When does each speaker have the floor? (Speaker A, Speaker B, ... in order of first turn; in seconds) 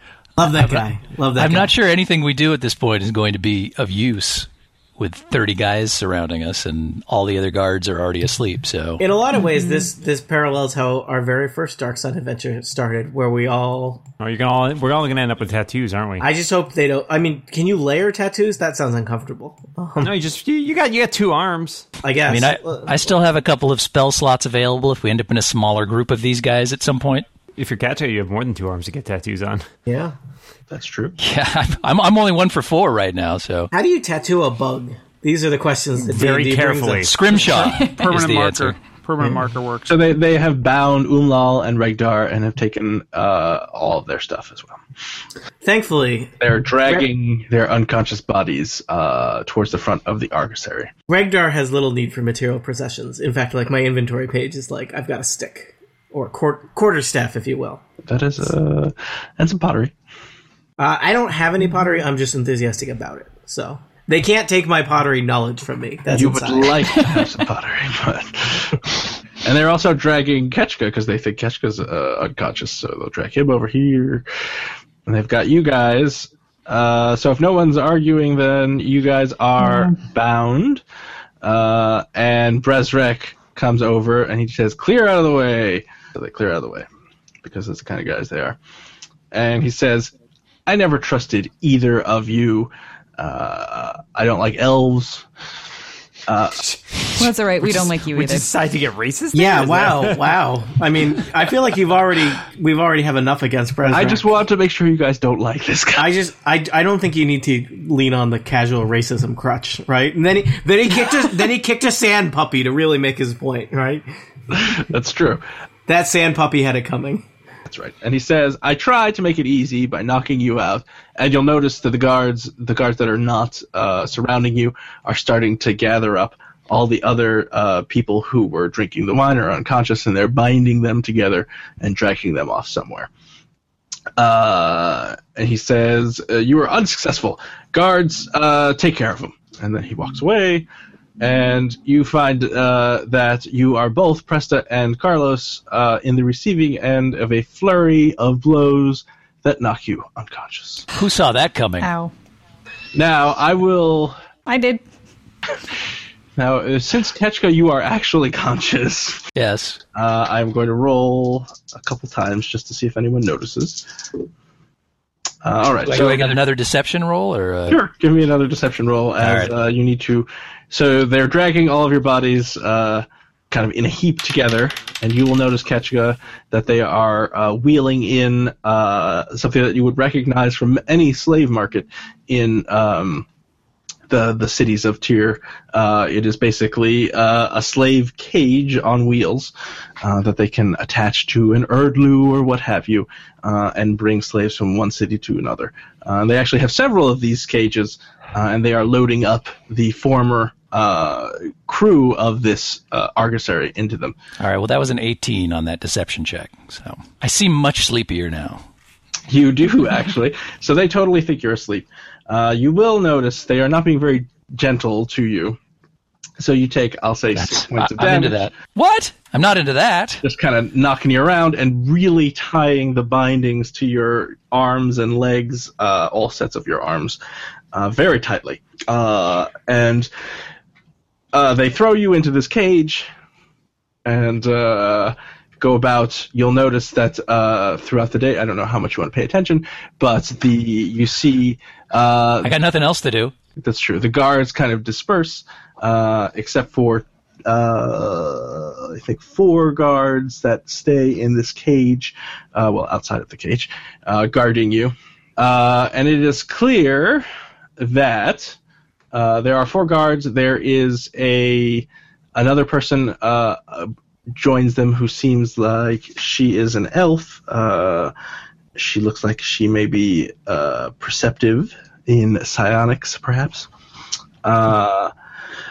Speaker A: 0.4-1.7, 9.0-14.0, 16.2-20.1, 22.0-22.9, 29.9-30.1, 33.7-37.1, 45.6-46.4, 51.1-57.8, 60.8-67.0, 99.3-104.2, 106.0-114.0, 115.9-117.2
Speaker B: 1.4-9.0, 22.3-27.3, 31.2-33.7, 37.0-38.8, 150.9-151.9, 159.3-159.8, 165.8-167.8, 169.2-169.5, 204.4-208.6, 217.3-220.2, 242.4-243.3
Speaker C: 14.2-16.3, 20.0-21.9, 27.6-29.7, 36.1-37.2, 97.6-100.4, 101.1-101.5
Speaker D: 30.7-31.2, 39.9-44.8, 46.4-50.9, 58.0-59.9, 66.1-74.2, 75.0-80.8, 81.4-86.9, 87.4-88.6, 89.3-90.1, 90.7-95.2, 96.3-96.6, 103.8-106.1, 114.5-115.4, 117.7-133.1, 134.2-140.7, 141.2-150.8, 152.9-154.2, 156.3-159.2, 159.9-164.2, 165.4-166.3, 167.7-183.3, 184.1-204.1, 209.3-215.6, 216.4-218.5, 220.2-227.2, 227.7-230.1, 231.3-233.1, 234.0-242.5, 243.6-257.2, 257.8-258.6, 259.1-268.1, 268.7-273.7, 274.4-275.1
Speaker E: 37.3-39.9
Speaker F: 97.1-98.5, 151.8-152.1, 154.4-154.8